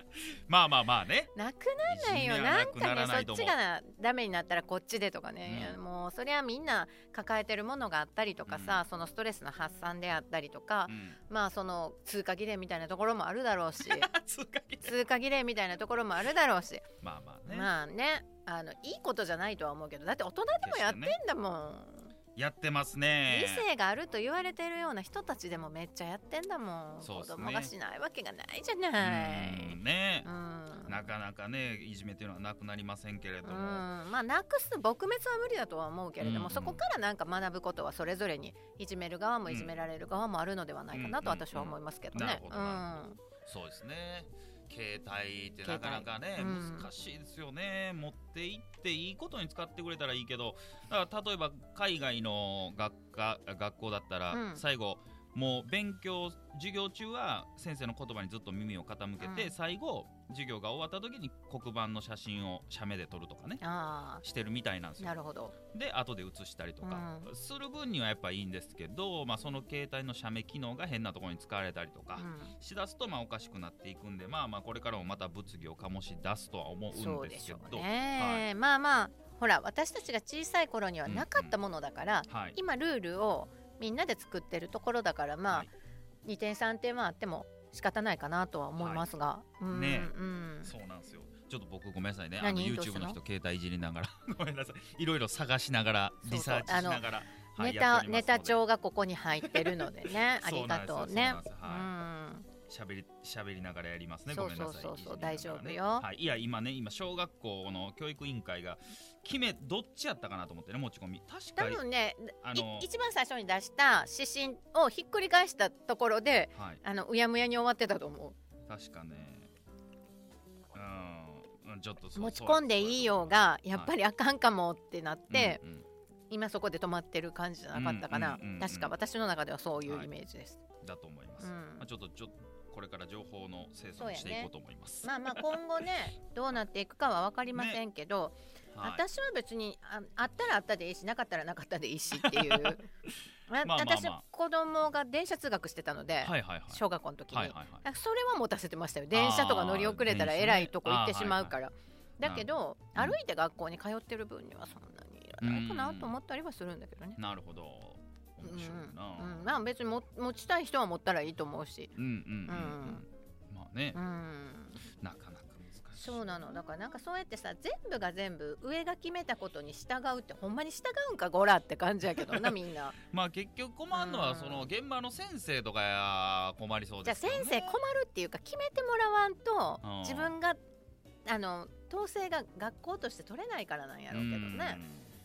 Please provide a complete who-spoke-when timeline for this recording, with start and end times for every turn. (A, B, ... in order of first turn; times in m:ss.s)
0:00.5-0:01.3 A
0:01.4-0:14.1 B
0:01.8-0:03.6 A
0:05.5-0:05.8 A
0:08.5-0:08.8 A
0:10.9-0:11.2 A
0:13.8-0:15.0 A
0:14.8-0:16.9 B
0:17.0-0:17.7 A
0:17.5-0:22.1 B
0:20.6-0:21.2 A
0:22.4-0:23.7 A
0:23.3-0:31.0 B
0:27.0-0:27.7 A
0:29.0-0:30.3 A
0:30.9-0:33.9 A
0:33.4-0:43.2 B
0:36.2-0:36.8 A
0:40.9-1:03.6 A
0:45.6-0:46.9 B
0:54.3-0:54.6 B
0:59.2-0:59.5 B
1:03.6-1:04.2 B
1:04.2-1:18.5 A
1:05.0-1:05.6 B
1:06.8-1:07.3 B
1:12.2-1:12.5 B
1:16.9-1:25.7 B
1:21.1-1:21.6 A
1:22.3-1:22.6 A
1:26.2-1:30.7 B
1:28.8-1:29.1 A
1:29.7-1:38.6 A
1:32.4-1:33.2 B
1:36.2-1:37.1 B
1:37.6-1:42.5 B
1:39.4-1:41.9 A
1:42.7-1:51.8 A
1:44.3-1:46.1 B
1:51.6-1:58.4 B
1:52.4-1:52.9 A
1:56.6-1:56.8 A
1:58.7-1:59.5 A
2:00.7-2:03.9 A
2:02.2-2:05.6 B
2:05.3-2:05.8 A
2:06.3-2:10.6 B
2:07.7-2:09.0 A
2:10.8-2:15.6 A
2:11.4-2:11.9 B
2:14.0-2:14.5 B
2:15.0-2:22.8 B
2:17.5-2:17.8 A
2:18.7-2:19.0 A
2:22.2-2:23.1 A
2:23.5-2:37.2 B
2:23.6-2:24.2 A
2:26.2-2:27.8 A
2:29.1-2:31.6 A
2:32.2-2:33.2 A
2:35.4-2:36.2 A
2:37.2-2:39.5 A
2:38.4-2:41.9 B
2:42.0-2:44.0 A
2:42.5-2:43.0 B
2:44.0-2:44.8 B
2:45.0-2:46.4 A
2:46.0-2:53.0 B
2:52.2-2:52.6 A
2:53.1-2:57.8 A
2:53.9-2:54.7 B
2:57.0-3:00.6 B
2:59.8-3:00.4 A
3:01.3-3:04.8 B
3:04.1-3:05.1 A